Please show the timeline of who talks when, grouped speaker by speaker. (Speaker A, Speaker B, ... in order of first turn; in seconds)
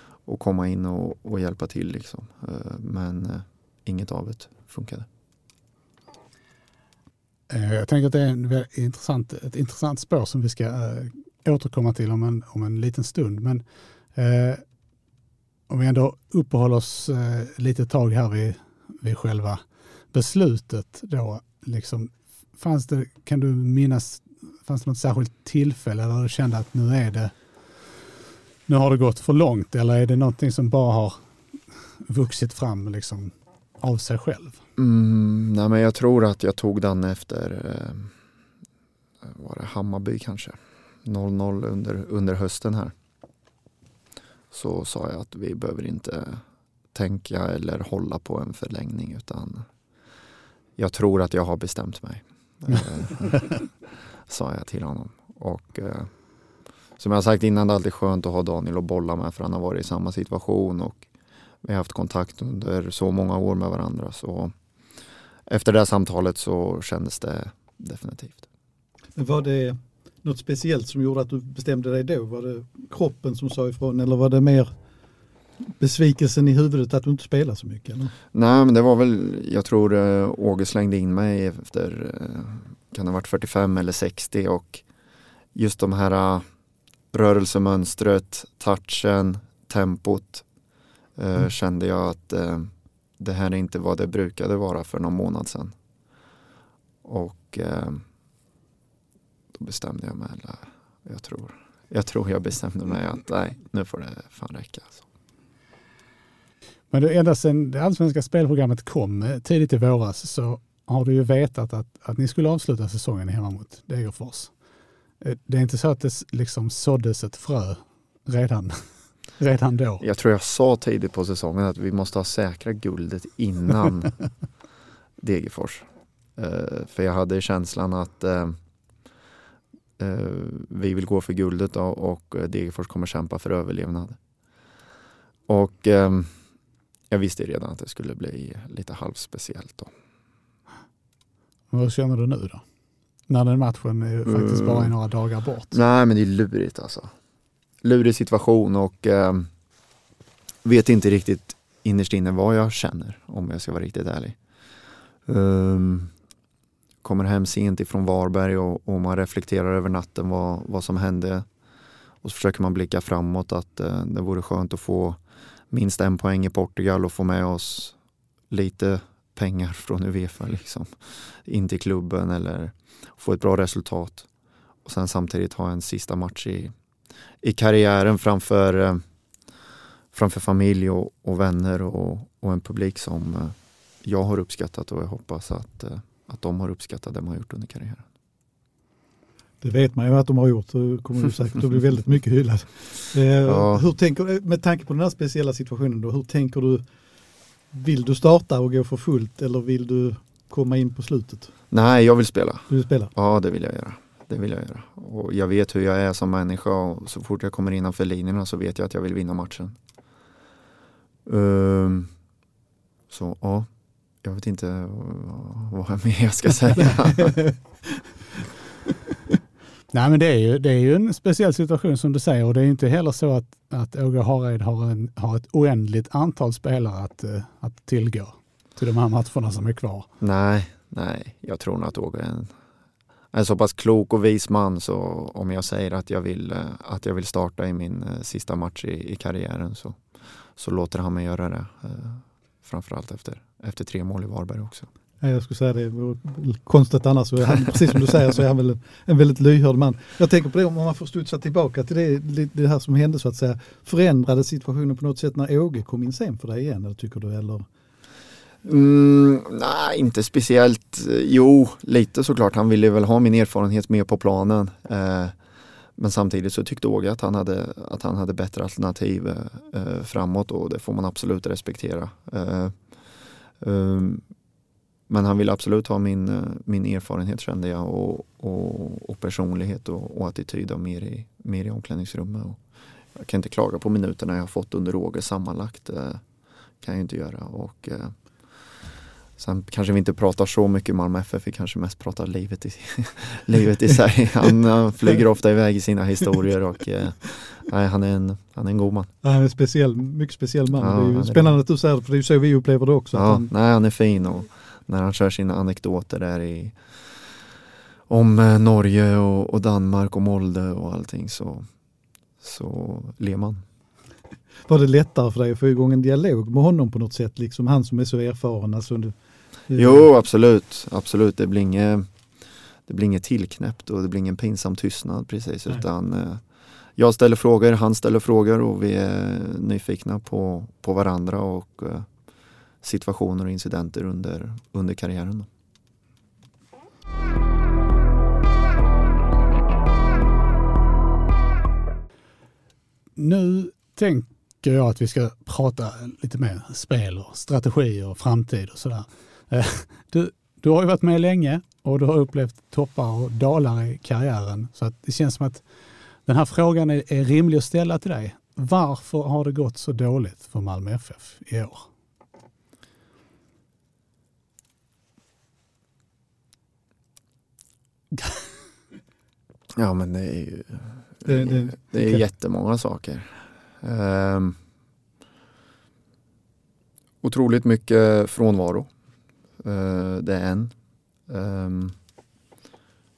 Speaker A: 0.2-5.1, 34.8-38.1, 39.2-42.9, 44.5-49.7, 50.8-53.7, 54.2-56.1, 57.0-61.0, 61.6-64.5, 65.5-68.5, 78.3-84.8, 85.5-86.5, 87.1-90.5, 91.2-95.7, 97.0-98.0, 99.5-105.0, 120.0-124.2, 125.2-128.6, 130.0-134.2, 135.5-136.4, 137.1-139.9, 144.2-144.9, 145.7-147.1, 147.8-149.5, 150.6-154.4, 155.2-156.1, 157.0-161.5, 162.2-165.2, 165.7-167.9, 168.5-174.3, 174.8-176.7, 177.4-179.0, 180.1-188.1, 193.4-193.8, 201.7-209.8, 211.2-212.1, 213.1-213.7, 214.2-217.5, 230.2-232.5, 233.3-240.0, 240.5-244.9, 258.6-265.4, 265.9-274.2, 275.1-282.6, 283.1-286.2, 286.8-288.2, 289.4-299.1, 300.8-301.6, 303.1-307.0, 308.1-311.7, 312.4-313.6, 319.7-322.1, 322.9-326.4, 326.9-332.1, 332.8-335.5, 369.7-374.6, 377.2-378.9, 379.6-380.7, 381.3-381.9
Speaker B: 7.5-13.6, 14.1-14.6, 15.7-27.3, 28.7-31.2, 32.1-34.6, 106.9-114.5, 115.2-120.0, 141.7-142.6, 143.3-145.8, 219.9-230.1, 343.1-355.7, 356.2-361.9
Speaker C: 69.2-74.7, 75.8-78.1, 189.6-196.8, 197.7-201.5, 202.7-203.1, 245.2-257.6, 299.2-303.5, 314.7-319.1, 319.7-320.0, 371.2-372.2